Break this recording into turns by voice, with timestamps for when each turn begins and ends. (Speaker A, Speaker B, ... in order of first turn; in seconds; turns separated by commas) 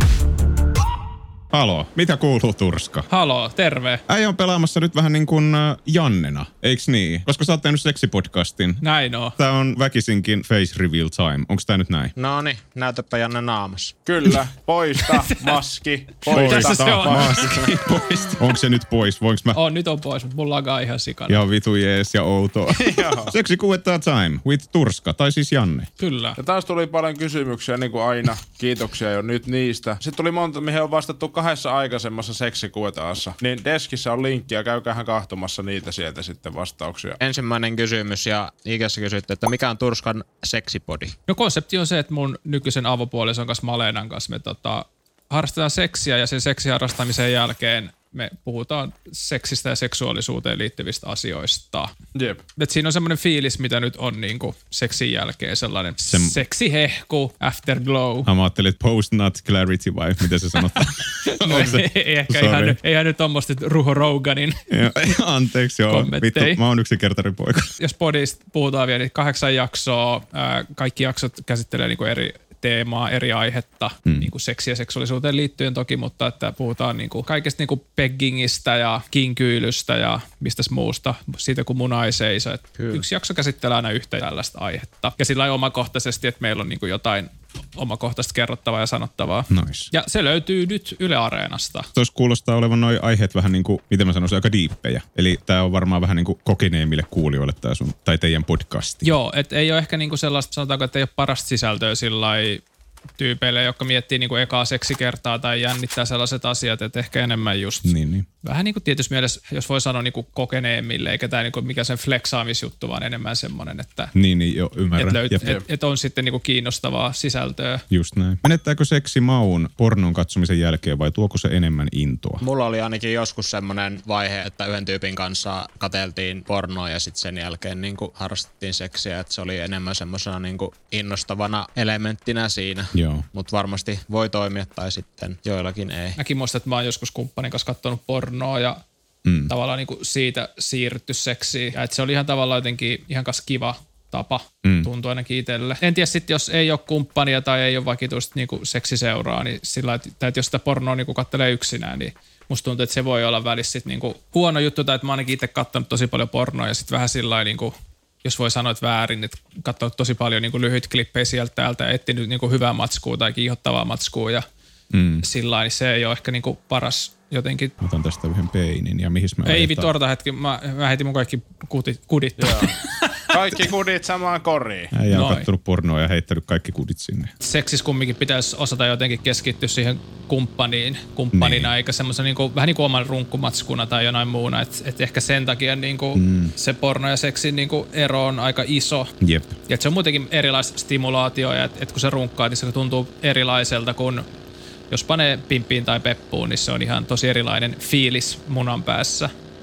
Speaker A: 1.5-3.1, Speaker B: 3.1-4.0, Speaker A: 4.1-8.8, Speaker B: 8.8-9.3, Speaker A: 9.4-12.1, Speaker C: 12.2-13.9, Speaker D: 14.1-17.7, Speaker B: 16.3-18.3, Speaker A: 16.3-19.6, Speaker B: 19.5-21.4, Speaker A: 21.3-25.9, Speaker D: 22.7-23.3, Speaker B: 26.0-26.4, Speaker D: 26.4-37.2, Speaker C: 37.2-41.1, Speaker B: 41.3-51.9, Speaker D: 52.2-52.4, Speaker B: 52.6-58.3, Speaker A: 56.1-56.4, Speaker A: 58.3-62.8, Speaker B: 61.4-64.7, Speaker A: 64.7-67.7, Speaker B: 65.9-66.6, Speaker B: 67.8-91.9, Speaker A: 74.1-74.3, Speaker C: 82.8-83.0, Speaker A: 89.5-89.9, Speaker A: 92.0-99.1, Speaker B: 99.0-102.6, Speaker B: 103.2-114.1, Speaker A: 107.8-108.3, Speaker A: 114.2-115.5, Speaker B: 115.0-117.8, Speaker A: 117.9-122.4, Speaker C: 122.4-136.2, Speaker A: 132.9-133.2, Speaker B: 136.2-138.8, Speaker A: 139.2-139.5, Speaker B: 139.5-164.4, Speaker A: 144.6-144.9, Speaker A: 164.9-165.3, Speaker B: 165.2-167.7, Speaker A: 167.8-169.9, Speaker B: 169.4-173.4, Speaker D: 172.4-172.7, Speaker D: 173.3-174.9, Speaker A: 174.9-177.3, Speaker B: 175.1-175.5, Speaker B: 177.4-189.1, Speaker A: 181.3-181.7, Speaker A: 186.2-186.5, Speaker A: 189.2-189.6, Speaker B: 189.7-194.3, Speaker B: 194.9-199.3